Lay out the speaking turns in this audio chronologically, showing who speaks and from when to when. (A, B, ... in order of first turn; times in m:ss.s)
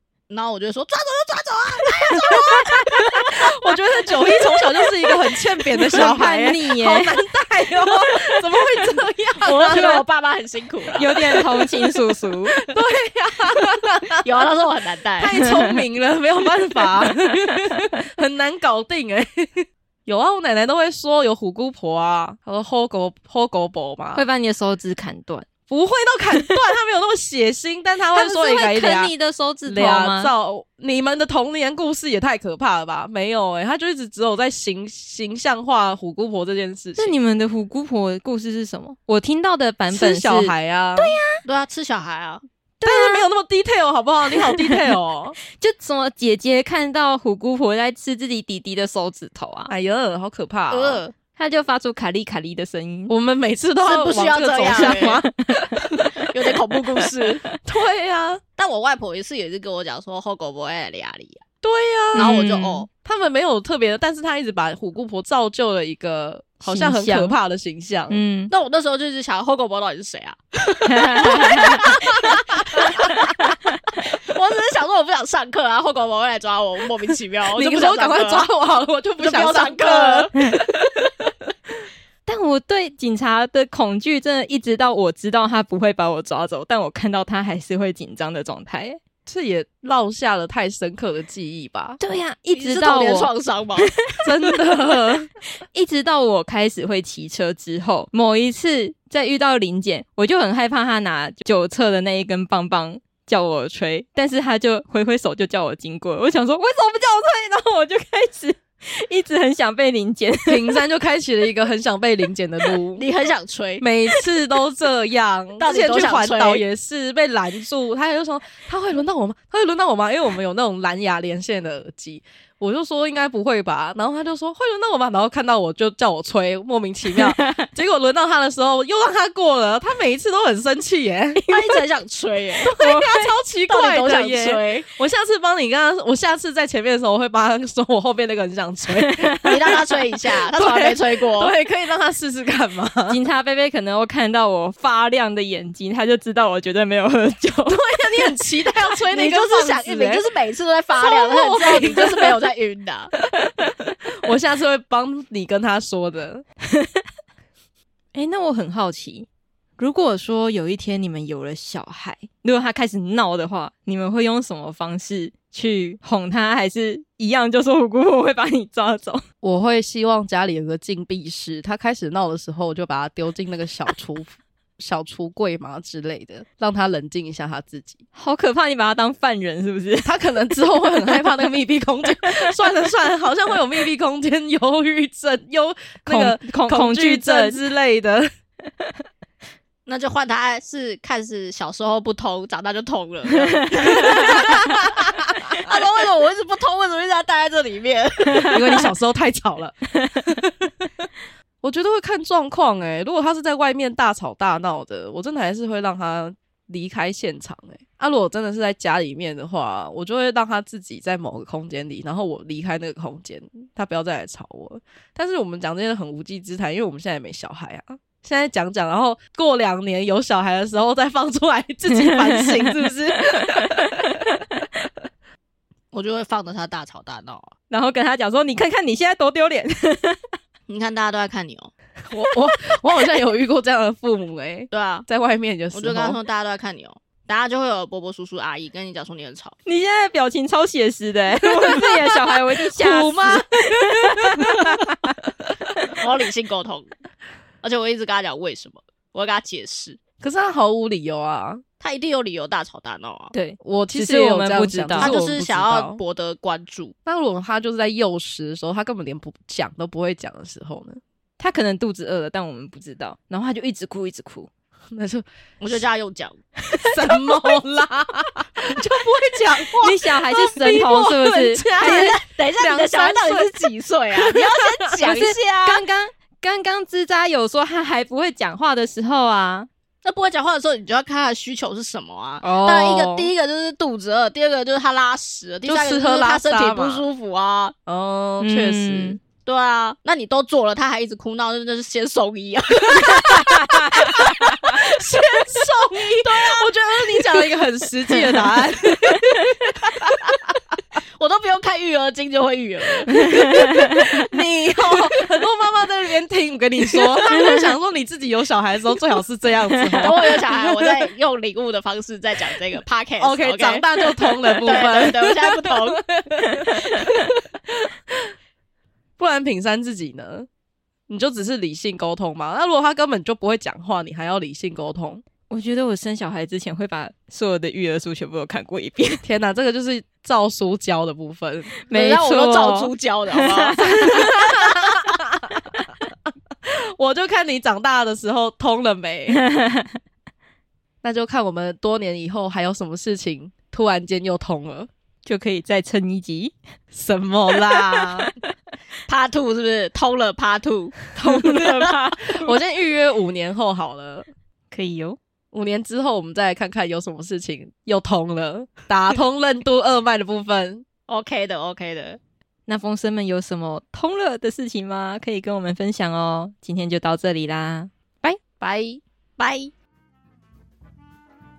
0:00.3-0:03.5 A
0:03.4-0:10.0 B
0:05.9-0:07.2 C
0:09.4-0:11.2 A
0:11.0-0:12.6 C
0:11.2-0:11.7 B
0:12.6-0:14.2 B
0:14.2-0:15.3 A
0:15.2-0:24.2 B
0:24.1-0:25.5 C
0:25.7-0:29.1 B
0:28.1-0:30.3 C
0:29.7-0:37.2 B
0:37.0-0:41.4 C
0:39.9-0:41.1 B
0:41.4-0:42.4 A
0:42.8-0:43.3 C
0:42.8-0:45.4 B
0:44.3-0:44.9 C
0:45.6-0:49.7 C
0:49.7-0:51.0 B
0:50.7-0:51.2 A
0:51.4-0:53.1 C
0:53.1-0:55.3 B
0:53.8-0:55.2 A
0:55.0-0:55.9 C
0:56.2-0:57.4 A
0:57.6-0:58.4 B
0:58.6-1:01.4 A
1:01.6-1:02.4 B
1:02.1-1:02.9 C
1:02.2-1:02.9 A
1:03.0-1:08.2 B
1:06.6-1:07.4 C
1:08.1-1:08.5 C
1:08.5-1:13.2 A
1:10.9-1:11.8 C
1:14.3-1:18.5 A
1:17.6-1:20.6 B
1:19.2-1:20.6 A
1:22.3-1:29.0 C
1:29.3-1:32.0 B
1:32.0-1:34.2 C
1:32.5-1:33.9 A
1:34.2-1:35.3 B
1:35.7-1:50.8 C
1:50.5-1:53.0 B
1:53.0-1:53.8 A
1:53.8-2:11.6 B
1:55.6-1:56.6 A
2:11.5-2:12.7 A
2:12.6-2:19.6 B
2:12.8-2:13.3 C
2:13.7-2:14.9 A
2:19.0-2:19.6 C
2:19.4-2:21.5 A
2:20.5-2:23.2 B
2:23.1-2:27.9 C
2:27.7-2:30.2 B
2:29.1-2:33.1 A
2:31.0-2:32.4 B
2:34.2-2:36.4 B
2:38.1-2:39.3 C
2:39.8-2:49.2 C
2:49.4-2:58.0 B
2:58.2-3:00.1 C
3:00.0-3:08.3 B
3:01.0-3:01.2 C
3:06.1-3:07.6 C
3:09.9-3:14.9 A
3:14.1-3:14.5 B
3:15.5-3:18.6 A
3:18.5-3:20.7 B
3:21.6-3:44.0 B
3:45.9-3:47.5 A
3:47.7-3:50.2 C
3:50.7-3:51.7 A
3:52.1-3:56.2 B
3:54.7-3:55.1 A
3:55.7-3:59.6 A
3:59.7-4:04.7 C
4:01.4-4:04.9 B
4:06.0-4:06.9 A
4:07.6-4:10.0 A
4:10.2-4:11.6 B
4:11.8-4:13.3 A
4:13.3-4:15.2 C
4:13.6-4:16.0 B
4:15.0-4:16.9 A
4:17.1-4:21.0 B
4:21.4-4:24.5 C
4:24.9-4:25.8 B
4:25.6-4:26.4 A
4:26.7-4:33.6 B
4:29.8-4:32.1 C
4:31.8-4:35.8 A
4:34.2-4:35.0 B
4:35.0-4:39.7 C
4:40.0-4:47.8 A
4:42.4-4:43.3 B
4:45.7-4:47.0 B
4:47.9-4:49.2 B
4:48.4-4:49.2 C
4:49.4-4:57.4 A
4:54.0-5:00.2 B
5:01.2-5:03.3 A
5:03.1-5:10.9 B
5:03.2-5:04.1 C
5:10.0-5:16.0 A
5:13.2-5:16.9 B
5:16.8-5:17.3 A
5:19.2-5:20.5 B
5:21.1-5:25.2 B
5:25.5-5:29.2 C
5:29.2-5:31.7 B
5:31.9-5:34.5 C
5:31.9-5:34.1 A
5:34.0-5:35.4 B
5:36.7-5:39.4 B
5:39.3-5:40.0 C
5:41.0-5:44.9 B
5:45.2-5:46.6 C
5:46.9-5:48.3 B
5:47.7-5:48.3 C
5:49.1-5:51.0 A
5:51.2-5:54.3 B
5:51.2-5:52.6 C
5:54.7-5:55.2 C
5:55.5-6:00.8 B
6:01.1-6:02.2 A
6:02.7-6:08.4 C
6:08.6-6:09.7 A